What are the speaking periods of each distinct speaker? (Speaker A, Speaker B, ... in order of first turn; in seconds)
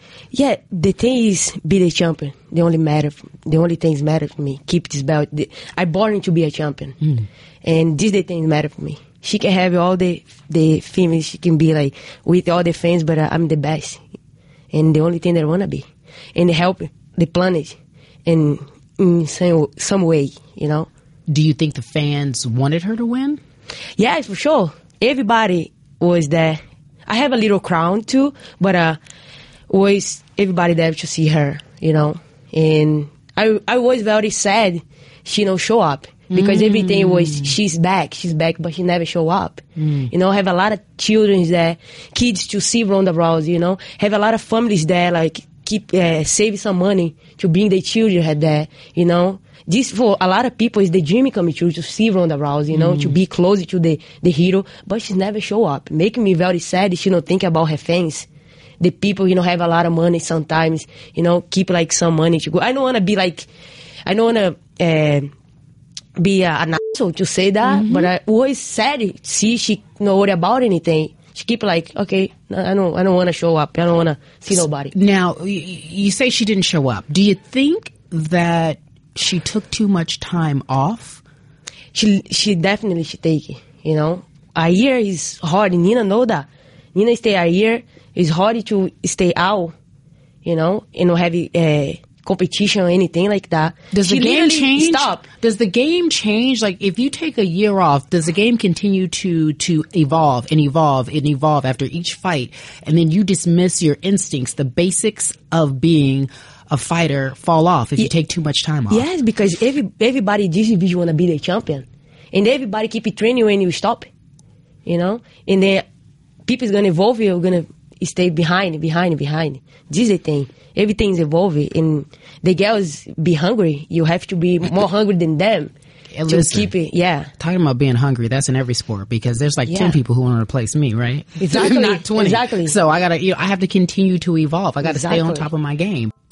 Speaker A: 0.3-7.0, 7.6-14.0, 14.7-20.9, 24.0-29.0, 29.7-58.3, 58.8-63.5, 64.1-65.3, 66.2-74.9, 81.9-89.7, 90.4-95.2, 108.9-114.1, 114.9-115.8, 116.5-125.7, 126.3-127.3, 129.7-130.0, 131.4-132.8, 134.8-135.5
Speaker B: 7.0-7.3, 21.3-23.4, 36.3-37.6, 39.8-40.1, 52.7-53.2, 67.6-68.1, 74.5-81.2, 93.9-109.1, 126.1-126.7, 127.4-136.1